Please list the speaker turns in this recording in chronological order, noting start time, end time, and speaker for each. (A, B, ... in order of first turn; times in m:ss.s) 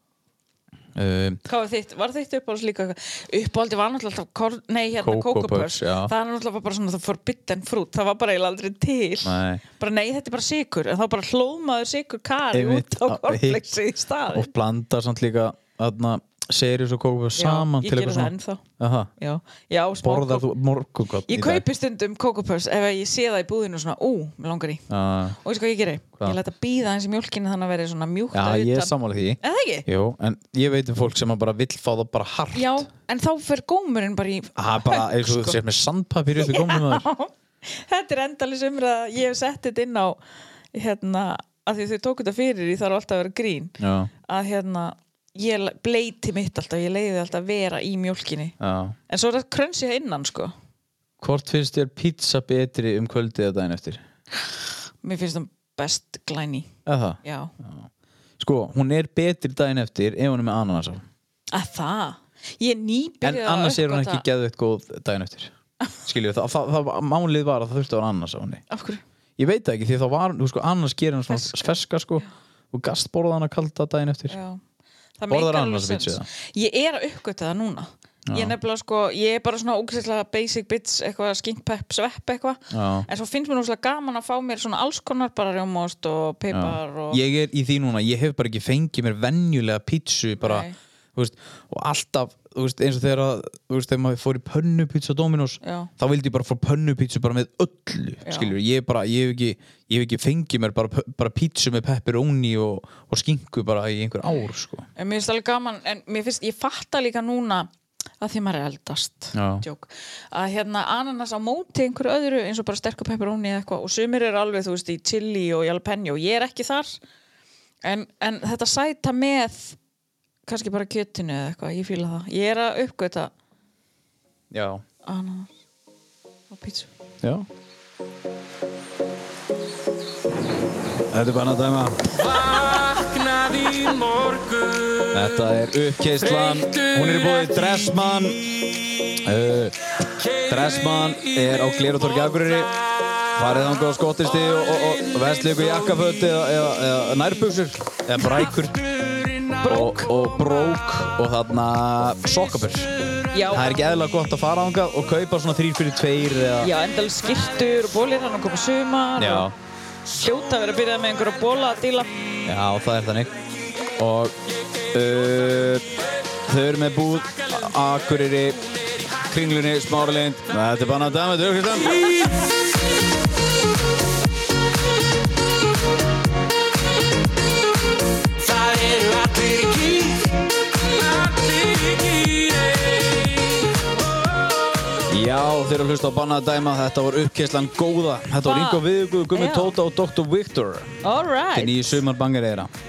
0:01.0-0:01.4 A
0:01.5-0:14.5 B
0:05.0-0:06.1 A
0:09.2-0:09.6 A
0:12.5-0:13.6 A
0:14.3-0:19.1 A
0:17.4-0:18.6 B
0:19.2-0:20.5 B
0:20.0-0:21.6 A
0:21.3-0:24.8 B
0:24.9-0:25.4 A
0:25.4-0:29.9 B
0:28.3-0:32.8 A
0:32.5-0:35.6 B
0:34.6-0:37.1 A
0:36.4-0:40.2 B
0:40.7-0:48.6 B
0:43.8-0:44.1 A
0:48.6-0:49.0 A
0:49.1-0:50.5 B
0:51.2-0:54.0 A
0:55.0-0:56.7 B
0:56.9-0:57.9 A
0:57.2-0:57.5 B
0:58.4-1:01.0 A
1:01.5-1:04.2 B
1:03.2-1:05.5 A
1:06.0-1:08.6 A
1:08.7-1:09.0 B
1:09.4-1:14.4 A
1:11.3-1:12.2 B
1:14.3-1:14.6 B
1:15.2-1:27.2 B
1:15.3-1:16.3 A
1:18.3-1:18.6 A
1:22.7-1:23.1 A
1:26.5-1:44.9 A
1:30.4-1:30.8 B
1:35.6-1:35.9 B
1:38.3-1:38.6 B
1:45.0-1:47.7 B
1:48.2-1:57.0 B
1:49.3-1:49.6 A
1:57.8-1:59.8 B
2:00.5-2:03.3 B
2:04.5-2:04.8 A
2:05.0-2:05.5 B
2:06.5-2:06.9 B
2:07.2-2:07.5 A
2:11.1-2:12.6 A
2:15.1-2:18.5 A
2:19.2-2:19.8 A
2:20.4-2:22.7 A
2:23.3-2:28.8 A
2:29.6-2:33.0 A
2:29.7-2:30.0 B
2:33.3-2:33.7 B
2:33.5-2:36.7 A
2:36.6-2:39.5 B
2:39.2-2:39.5 A
2:40.1-2:42.1 B
2:42.4-2:43.4 A
2:44.0-2:44.4 A
2:44.9-2:52.5 A
2:58.5-3:00.1 C
3:01.2-3:02.7 C
3:05.1-3:11.0 A
3:08.4-3:09.8 B
3:11.0-3:12.0 B
3:11.5-3:12.7 A